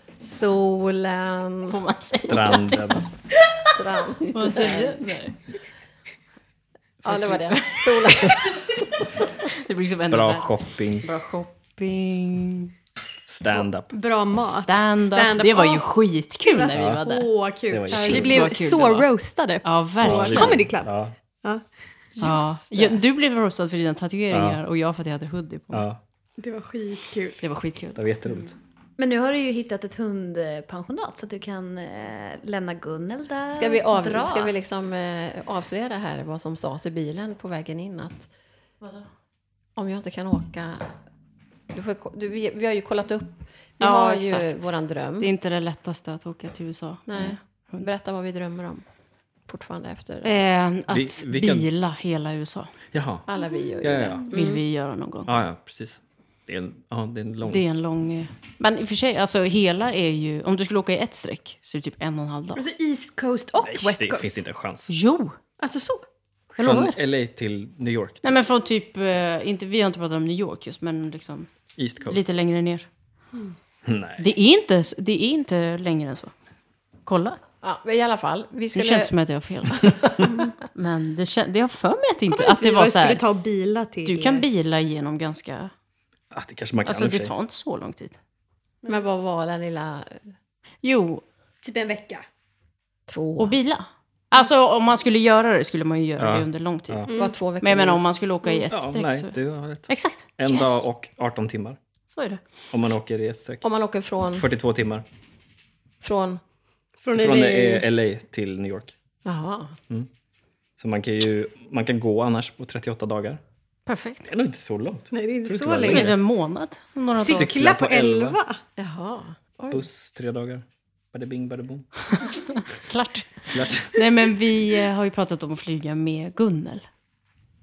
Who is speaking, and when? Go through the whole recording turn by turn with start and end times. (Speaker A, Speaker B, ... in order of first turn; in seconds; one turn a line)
Speaker A: 0.2-1.8
Speaker B: 1.7-3.5
Speaker C: 2.2-3.1
Speaker A: 3.6-5.0
Speaker B: 4.3-5.4
Speaker A: 7.0-9.0
Speaker B: 7.1-12.7
Speaker C: 10.1-11.1
Speaker C: 13.3-13.9
Speaker D: 13.9-21.6
Speaker B: 14.3-17.3
Speaker C: 16.7-17.0
Speaker C: 17.7-18.6
Speaker B: 17.9-19.1
Speaker A: 17.9-18.2
Speaker B: 19.6-20.7
Speaker C: 20.0-21.2
Speaker A: 22.2-23.0
Speaker B: 22.2-25.9
Speaker C: 24.3-24.6
Speaker C: 25.7-26.0
Speaker D: 26.4-27.4
Speaker B: 27.4-28.0
Speaker C: 27.9-28.6
Speaker E: 29.0-34.5
Speaker A: 33.5-38.3
Speaker B: 38.8-39.1
Speaker A: 39.8-40.9
Speaker A: 41.7-45.3
Speaker B: 43.8-47.9
Speaker A: 47.1-48.8
Speaker A: 49.5-50.4
Speaker B: 50.2-52.8
Speaker C: 50.9-51.7
Speaker C: 52.9-53.3
Speaker A: 53.3-54.6
Speaker C: 53.8-54.3
Speaker B: 54.3-55.3
Speaker C: 55.3-57.6
Speaker B: 57.5-62.6
Speaker D: 62.5-64.4
Speaker C: 63.6-64.9
Speaker B: 64.9-65.4
Speaker D: 65.6-66.1
Speaker B: 66.6-67.0
Speaker C: 66.6-68.2
Speaker B: 68.2-71.5
Speaker C: 71.8-72.2
Speaker B: 72.1-72.9
Speaker C: 73.8-74.3
Speaker B: 74.2-76.3
Speaker B: 77.1-77.4
Speaker A: 77.6-79.1
Speaker B: 78.7-83.3
Speaker A: 79.7-80.3
Speaker D: 82.3-84.5
Speaker B: 84.0-85.7
Speaker C: 86.3-87.3
Speaker B: 86.8-88.2
Speaker A: 88.9-90.3
Speaker B: 90.8-91.2
Speaker D: 91.6-92.2
Speaker A: 93.1-93.6
Speaker B: 93.4-100.8
Speaker C: 96.2-97.1
Speaker D: 97.1-97.3
Speaker A: 97.2-98.1
Speaker C: 98.7-101.8
Speaker B: 102.1-102.4
Speaker C: 102.7-103.7
Speaker A: 103.6-104.5
Speaker C: 104.3-105.0
Speaker A: 106.0-106.4
Speaker D: 107.0-107.9
Speaker C: 107.1-108.9
Speaker A: 109.2-109.8
Speaker C: 110.8-113.4
Speaker B: 113.9-114.3
Speaker C: 114.2-116.2
Speaker D: 115.1-116.2
Speaker B: 115.9-117.5
Speaker D: 117.2-118.6
Speaker C: 117.2-118.4
Speaker A: 118.8-119.8
Speaker C: 119.7-121.9
Speaker B: 122.1-126.9
Speaker C: 123.5-124.0